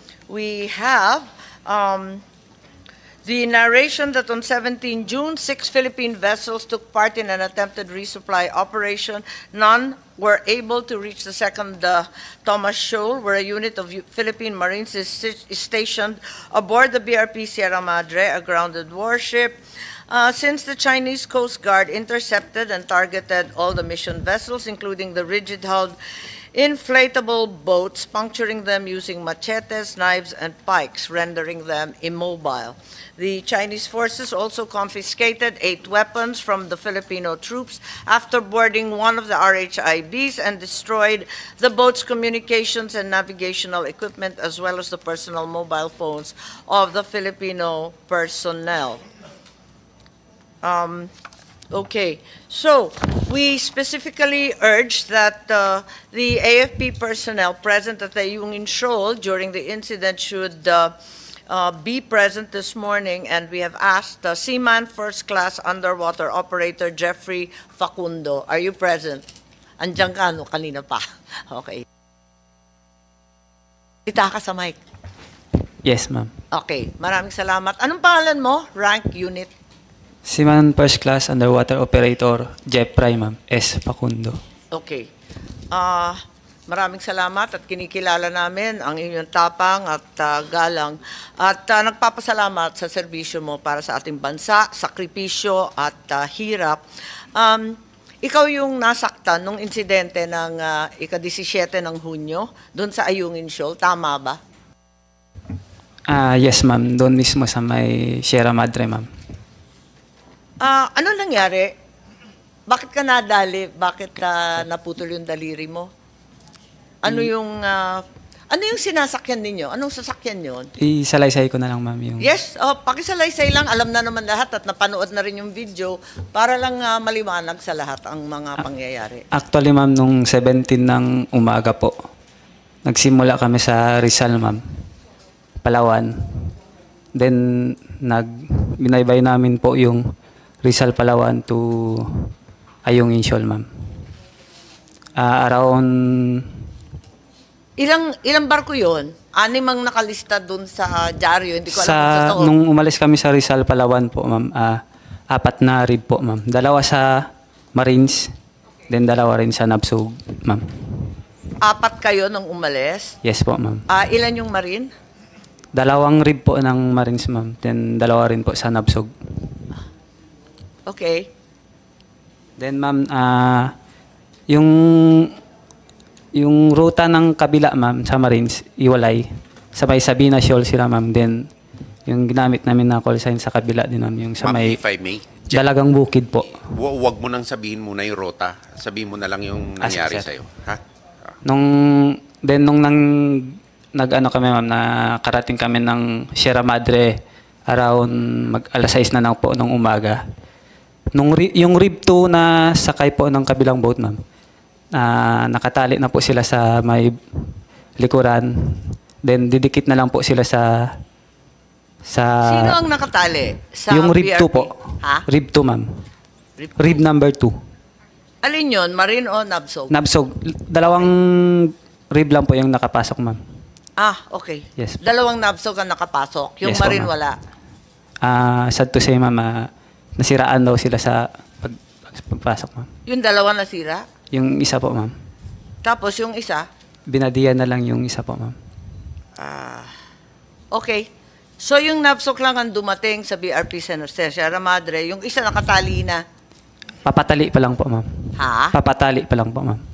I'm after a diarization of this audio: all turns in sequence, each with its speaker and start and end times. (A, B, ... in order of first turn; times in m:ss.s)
0:00.3-0:02.2 A
0:03.2-0:26.0 A
0:26.5-0:49.0 A
0:50.6-0:51.1 A
0:51.7-1:00.9 A
1:01.5-1:09.2 A
1:09.8-1:11.8 A
1:14.0-1:14.8 A
1:15.8-1:16.3 B
1:16.5-1:19.5 A
1:20.2-1:24.4 B
1:24.7-1:25.1 A
1:25.7-1:36.8 A
1:37.3-1:44.4 A
1:46.1-1:49.1 B
1:50.6-1:51.7 A
1:52.7-1:55.9 A
1:57.0-2:00.7 A
2:00.8-2:02.3 B
2:02.2-2:09.2 A
2:09.3-2:11.9 B
2:12.8-2:14.6 B
2:15.6-2:16.1 B
2:17.1-2:18.3 B
2:18.8-2:20.0 B
2:20.6-2:22.2 B
2:22.8-2:23.6 B
2:25.2-2:26.5 B
2:27.8-2:32.5 A
2:31.7-2:34.8 B
2:35.3-2:38.3 B
2:38.9-2:41.0 B
2:41.6-2:43.2 A
2:43.2-2:43.8 B
2:43.9-2:44.9 A
2:45.7-2:49.1 B
2:50.9-2:51.3 A
2:52.6-2:53.7 B
2:54.5-2:55.3 B
2:56.4-3:01.4 B
3:02.1-3:04.8 B
3:04.4-3:05.6 C
3:05.5-3:06.6 B
3:06.7-3:10.8 C
3:09.8-3:10.3 B
3:11.4-3:17.1 B
3:17.7-3:20.2 B
3:21.1-3:24.2 B
3:24.9-3:27.2 B
3:28.0-3:30.9 B
3:32.0-3:32.8 B
3:32.4-3:35.2 A
3:33.9-3:34.8 B
3:35.3-3:35.9 B
3:36.6-3:37.0 A
3:36.8-3:37.5 B
3:38.4-3:39.9 A
3:39.9-3:43.4 B
3:44.0-3:47.3 A
3:44.8-3:45.0 B
3:46.6-3:47.1 B
3:48.2-3:49.6 B
3:50.2-3:52.9 B
3:53.0-3:54.0 A
3:54.3-3:55.1 B
3:55.8-3:56.6 A
3:57.1-3:58.6 B
3:59.4-3:59.9 A
4:00.7-4:01.1 A
4:01.6-4:06.2 A
4:07.0-4:09.8 B
4:08.4-4:08.7 A